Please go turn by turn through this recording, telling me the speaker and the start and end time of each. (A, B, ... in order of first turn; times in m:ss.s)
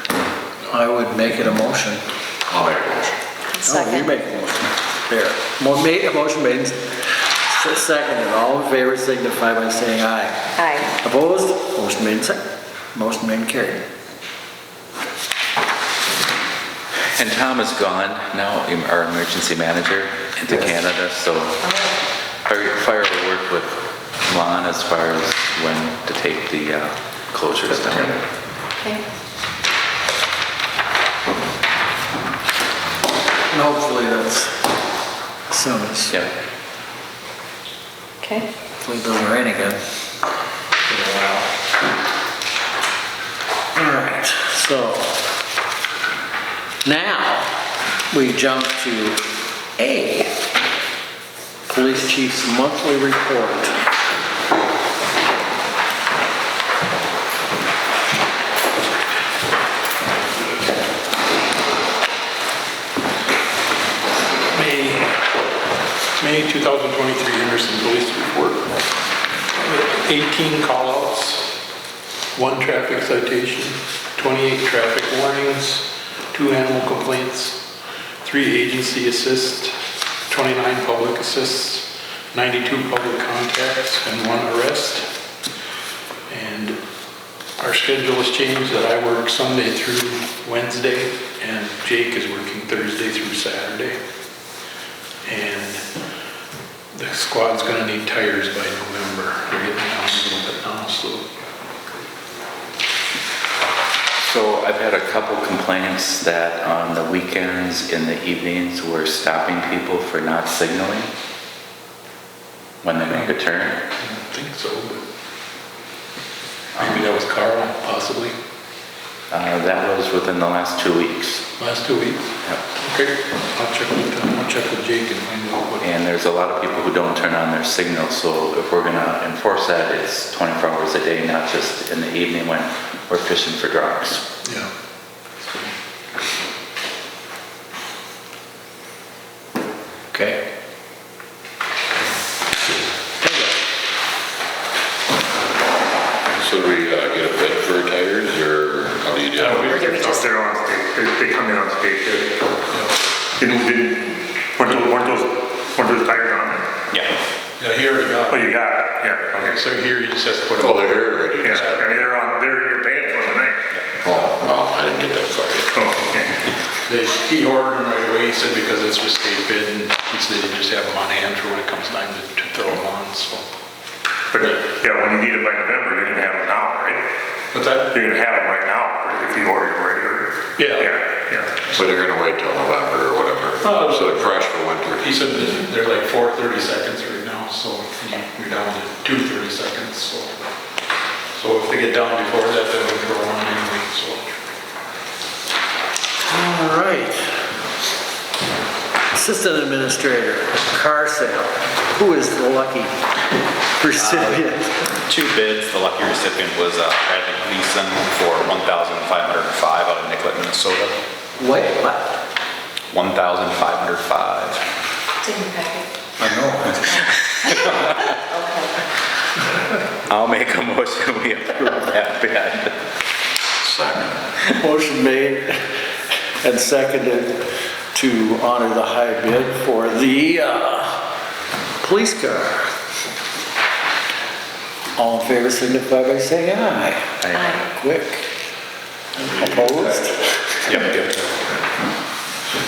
0:00.7-0:02.0 A
0:02.5-0:03.1 B
0:03.5-0:04.1 C
0:03.6-0:06.9 A
0:07.5-0:12.4 A
0:10.6-0:10.9 C
0:12.9-0:13.9 A
0:17.1-0:21.6 D
0:21.7-0:21.9 C
0:22.5-0:28.2 D
0:33.5-0:34.6 A
0:35.5-0:36.2 A
0:38.2-0:38.5 C
0:38.8-0:39.8 A
0:43.7-0:45.1 A
0:46.8-0:47.6 A
0:48.1-0:49.2 A
0:49.8-0:50.3 A
0:51.7-0:53.8 A
1:04.5-1:05.1 E
1:06.2-1:08.6 E
1:09.6-1:11.5 E
1:12.4-1:17.6 E
1:18.2-1:19.8 E
1:20.3-1:25.1 E
1:26.3-1:26.8 E
1:27.6-1:34.0 E
1:35.3-1:35.8 E
1:36.9-1:41.2 E
1:44.2-1:51.1 D
1:52.8-1:53.8 D
1:54.0-1:55.0 E
1:56.8-1:58.4 E
1:59.3-2:01.5 D
2:01.6-2:05.9 E
2:05.8-2:14.2 D
2:20.1-2:20.4 A
2:23.2-2:23.5 A
2:26.4-2:30.2 B
2:29.4-2:30.0 E
2:29.4-2:32.5 F
2:29.7-2:30.2 C
2:33.4-2:36.7 F
2:36.9-2:37.2 G
2:37.6-2:38.5 E
2:38.3-2:39.6 F
2:39.4-2:41.0 E
2:40.6-2:41.8 B
2:41.4-2:43.6 F
2:41.6-2:42.0 E
2:44.0-2:45.7 B
2:45.7-2:46.3 F
2:46.9-2:53.4 E
2:54.3-2:57.0 F
2:57.5-2:57.9 E
2:57.9-3:01.7 F
3:00.6-3:01.0 E
3:01.7-3:05.1 B
3:03.6-3:04.4 E
3:05.0-3:10.3 E
3:11.4-3:14.4 E
3:16.2-3:17.4 A
3:19.1-3:22.9 A
3:23.8-3:24.8 A
3:25.1-3:31.0 G
3:31.4-3:32.2 A
3:32.9-3:34.6 G
3:35.2-3:35.8 C
3:36.2-3:36.8 A
3:36.8-3:37.8 D
3:38.2-3:38.7 C
3:40.1-3:42.8 D
3:43.6-3:44.1 B
3:44.5-3:45.6 A
3:46.4-3:51.1 A
3:51.8-3:52.7 A
3:55.0-3:58.3 A
3:57.3-3:57.6 C
3:59.2-4:00.3 A
4:00.6-4:01.5 G